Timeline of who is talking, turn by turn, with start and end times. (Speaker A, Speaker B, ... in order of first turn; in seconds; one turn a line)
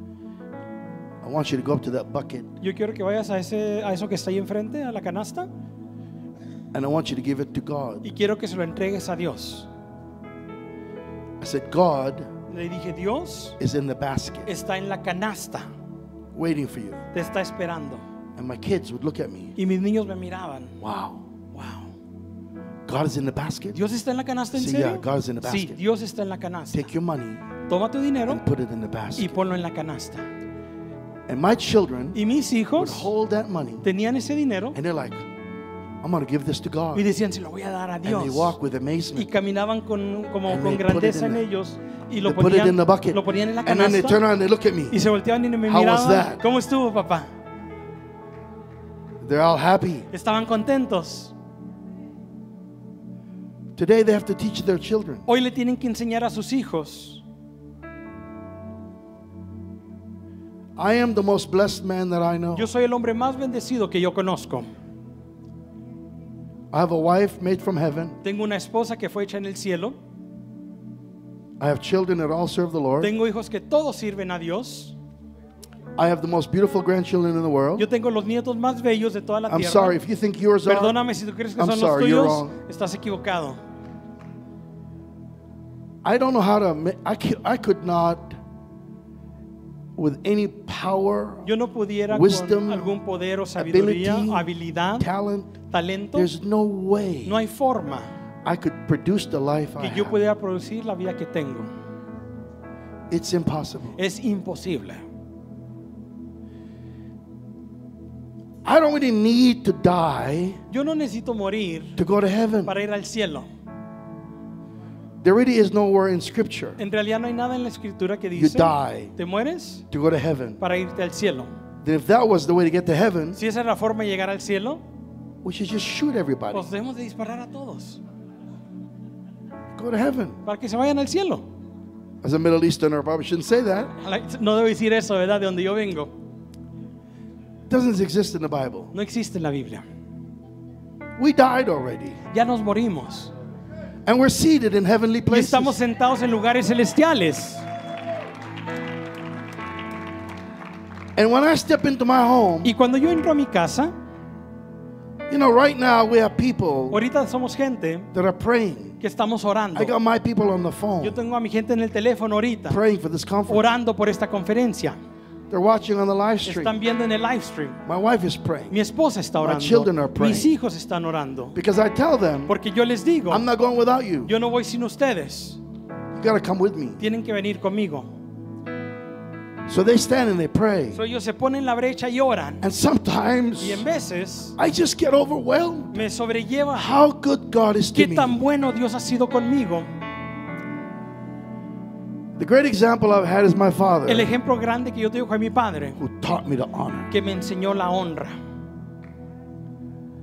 Speaker A: 1.2-2.5
Speaker B: 2.6-5.5
Speaker A: 6.7-8.1
Speaker B: 8.0-9.7
Speaker A: 11.4-12.3
Speaker B: 12.5-13.6
Speaker A: 13.6-14.5
Speaker B: 14.5-15.7
Speaker A: 16.3-17.0
Speaker B: 17.1-18.0
Speaker A: 18.4-19.6
Speaker B: 19.6-20.7
Speaker A: 20.8-21.2
Speaker B: 21.5-21.9
Speaker A: 22.9-23.8
Speaker B: 23.7-26.9
Speaker A: 24.5-25.8
Speaker A: 26.7-27.4
Speaker B: 27.7-28.4
Speaker A: 28.3-29.3
Speaker B: 29.1-30.2
Speaker A: 31.3-32.2
Speaker B: 32.1-33.1
Speaker A: 32.8-33.8
Speaker B: 33.8-34.8
Speaker A: 34.7-35.2
Speaker A: 36.0-37.0
Speaker B: 36.9-38.5
Speaker A: 38.0-39.3
Speaker B: 39.1-44.2
Speaker A: 40.5-41.4
Speaker A: 42.2-45.0
Speaker B: 44.9-47.3
Speaker A: 45.7-46.4
Speaker A: 49.2-50.1
Speaker B: 50.1-51.3
Speaker A: 53.8-55.2
Speaker B: 55.3-57.2
Speaker A: 60.8-62.7
Speaker B: 62.5-64.7
Speaker A: 66.7-68.2
Speaker B: 68.2-70.0
Speaker A: 71.6-73.1
Speaker B: 73.0-75.0
Speaker A: 76.0-77.8
Speaker B: 77.8-80.0
Speaker A: 79.5-81.0
Speaker B: 80.7-83.6
Speaker A: 81.5-82.5
Speaker A: 86.0-88.4
Speaker A: 90.0-91.5
Speaker B: 91.4-95.0
Speaker A: 92.1-92.9
Speaker A: 93.6-94.5
Speaker A: 95.0-95.6
Speaker B: 95.7-96.3
Speaker A: 96.1-97.3
Speaker B: 97.2-98.1
Speaker A: 98.4-100.2
Speaker B: 99.8-101.7
Speaker A: 103.1-104.0
Speaker B: 104.0-105.0
Speaker A: 108.6-110.6
Speaker B: 110.7-112.0
Speaker A: 112.0-112.7
Speaker B: 112.7-113.5
Speaker A: 115.2-116.8
Speaker B: 116.8-119.8
Speaker A: 118.3-119.1
Speaker A: 119.9-120.6
Speaker B: 120.6-121.5
Speaker A: 121.8-123.4
Speaker B: 123.3-124.8
Speaker A: 125.4-126.7
Speaker B: 126.5-128.0
Speaker A: 129.8-130.4
Speaker B: 130.4-131.4
Speaker A: 132.2-133.9
Speaker B: 134.0-136.1
Speaker A: 137.7-138.9
Speaker B: 138.9-139.8
Speaker A: 141.2-142.2
Speaker B: 142.3-143.3
Speaker A: 144.1-145.8
Speaker B: 145.3-147.6
Speaker A: 151.2-152.7
Speaker B: 152.6-153.9
Speaker A: 155.3-157.0
Speaker B: 156.9-158.1
Speaker A: 158.1-159.0
Speaker B: 159.0-159.9
Speaker A: 159.7-161.2
Speaker B: 161.0-162.8
Speaker A: 162.7-163.7
Speaker B: 163.5-165.0
Speaker A: 165.5-166.7
Speaker B: 166.4-167.8
Speaker A: 167.8-168.8
Speaker B: 168.7-171.5
Speaker A: 169.4-170.5
Speaker A: 171.5-172.5
Speaker B: 172.5-173.4
Speaker A: 173.3-174.3
Speaker B: 174.2-175.6
Speaker A: 176.2-177.0
Speaker B: 177.0-178.1
Speaker A: 179.7-181.0
Speaker B: 180.9-182.6
Speaker A: 182.6-183.8
Speaker B: 183.6-184.5
Speaker A: 184.6-186.0
Speaker B: 185.9-186.9
Speaker A: 186.7-188.4
Speaker B: 187.9-189.9
Speaker A: 192.4-194.3
Speaker B: 194.1-196.0
Speaker A: 196.0-197.1
Speaker B: 197.1-198.3